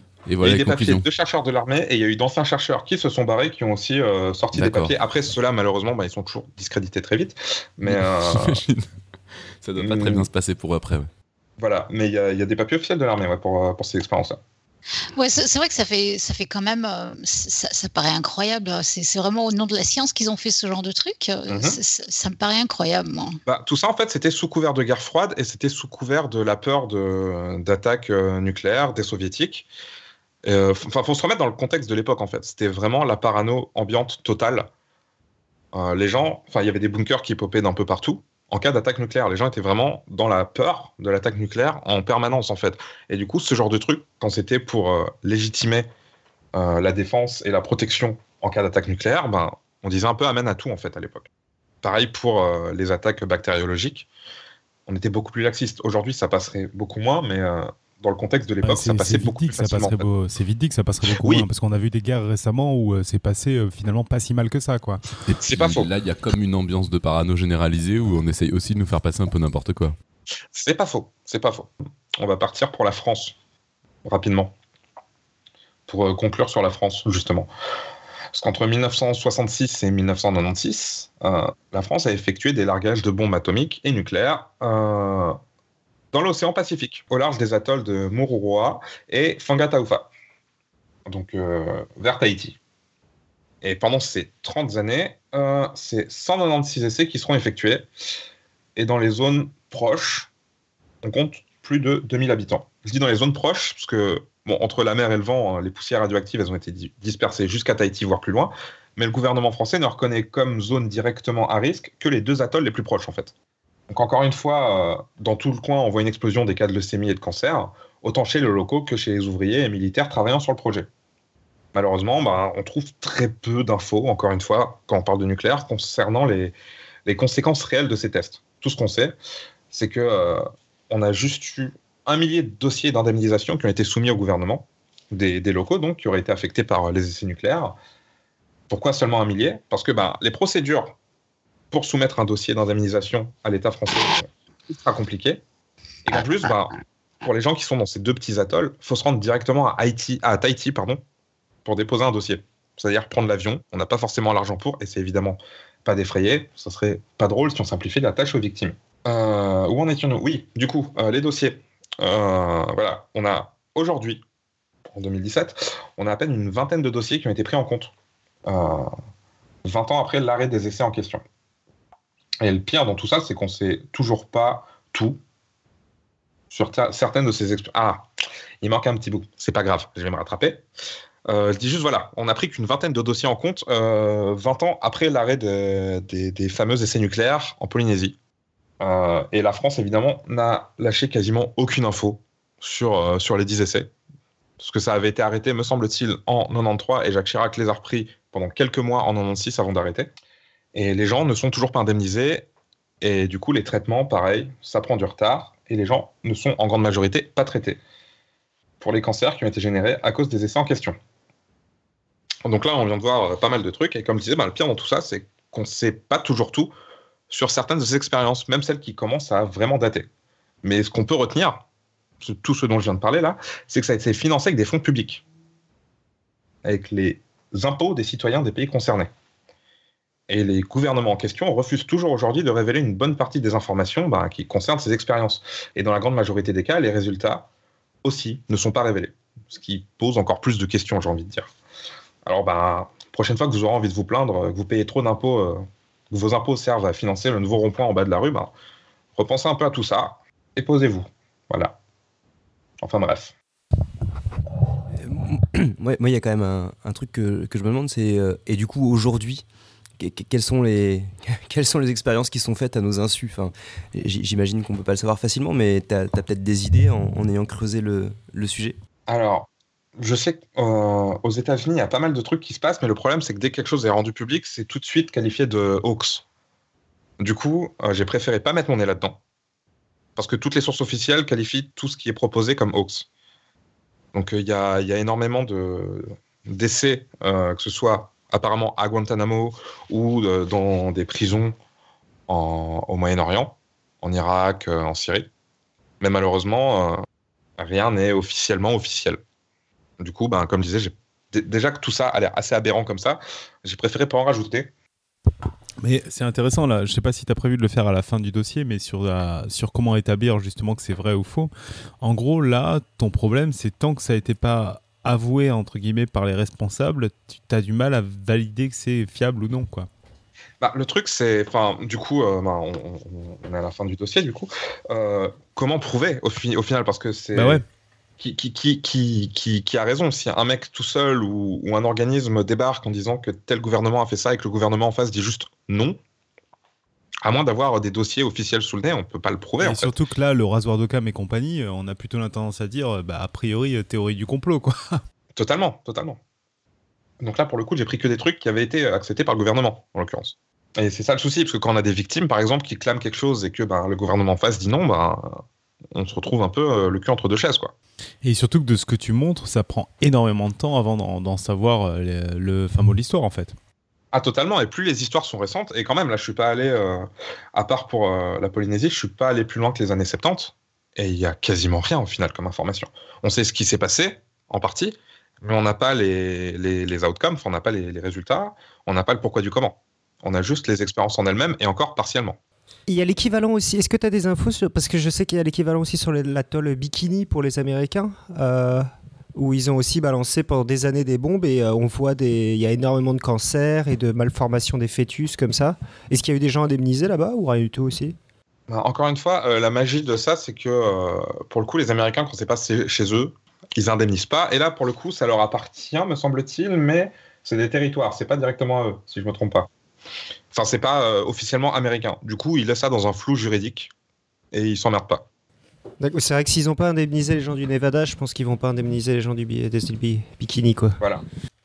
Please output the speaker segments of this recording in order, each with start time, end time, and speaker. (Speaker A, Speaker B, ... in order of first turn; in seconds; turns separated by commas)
Speaker A: 0.3-1.1, Speaker B: 0.4-8.6, Speaker A: 4.5-4.9, Speaker A: 7.8-8.8, Speaker A: 9.6-11.1, Speaker B: 9.8-10.2, Speaker B: 11.6-14.4, Speaker C: 15.2-23.4, Speaker B: 21.5-21.8, Speaker B: 23.4-29.7, Speaker B: 30.4-34.7, Speaker B: 35.7-45.9, Speaker B: 46.5-51.3, Speaker B: 51.8-54.1, Speaker B: 54.9-60.1, Speaker D: 58.6-65.0, Speaker B: 61.1-61.5, Speaker A: 65.2-69.9, Speaker B: 65.4-65.9, Speaker B: 70.5-73.3, Speaker B: 74.0-74.5, Speaker B: 75.9-77.5, Speaker B: 78.3-85.4, Speaker B: 86.1-90.1, Speaker B: 91.0-92.6, Speaker B: 93.6-97.9, Speaker B: 98.8-100.3, Speaker B: 101.0-113.3, Speaker B: 113.9-120.9, Speaker B: 121.7-129.2, Speaker B: 129.7-137.8, Speaker B: 138.7-140.9, Speaker B: 141.7-145.4, Speaker B: 146.0-151.0, Speaker B: 151.6-164.2, Speaker B: 164.8-167.9, Speaker B: 168.4-168.9, Speaker B: 169.6-171.2, Speaker B: 172.4-175.2, Speaker B: 176.5-178.1, Speaker B: 178.6-180.7, Speaker B: 181.3-188.2, Speaker B: 188.8-193.9, Speaker B: 194.6-200.1, Speaker B: 200.7-202.5, Speaker B: 203.0-207.8, Speaker B: 208.8-211.0, Speaker B: 212.4-216.7, Speaker B: 217.3-220.1, Speaker B: 220.6-221.6, Speaker B: 222.2-225.2, Speaker B: 226.6-229.1, Speaker B: 230.3-237.5, Speaker B: 238.0-241.5, Speaker B: 242.2-248.5, Speaker B: 249.2-251.8, Speaker B: 252.8-253.3, Speaker E: 255.0-259.4, Speaker E: 260.0-268.8, Speaker B: 269.1-276.2, Speaker B: 277.2-279.2, Speaker B: 280.1-283.1, Speaker B: 284.1-291.6, Speaker B: 292.3-295.3, Speaker B: 296.0-297.0, Speaker B: 297.6-299.2, Speaker B: 300.0-304.7, Speaker D: 305.8-311.5, Speaker D: 312.0-319.9, Speaker B: 320.6-327.6, Speaker D: 327.3-327.6, Speaker B: 328.2-336.0, Speaker B: 337.2-339.9, Speaker D: 339.6-345.0, Speaker B: 345.4-346.2, Speaker B: 347.2-357.7, Speaker D: 358.2-363.6, Speaker B: 364.1-382.4, Speaker F: 382.9-398.2, Speaker B: 398.7-409.7, Speaker B: 410.5-413.9, Speaker B: 414.5-415.2, Speaker F: 416.0-421.0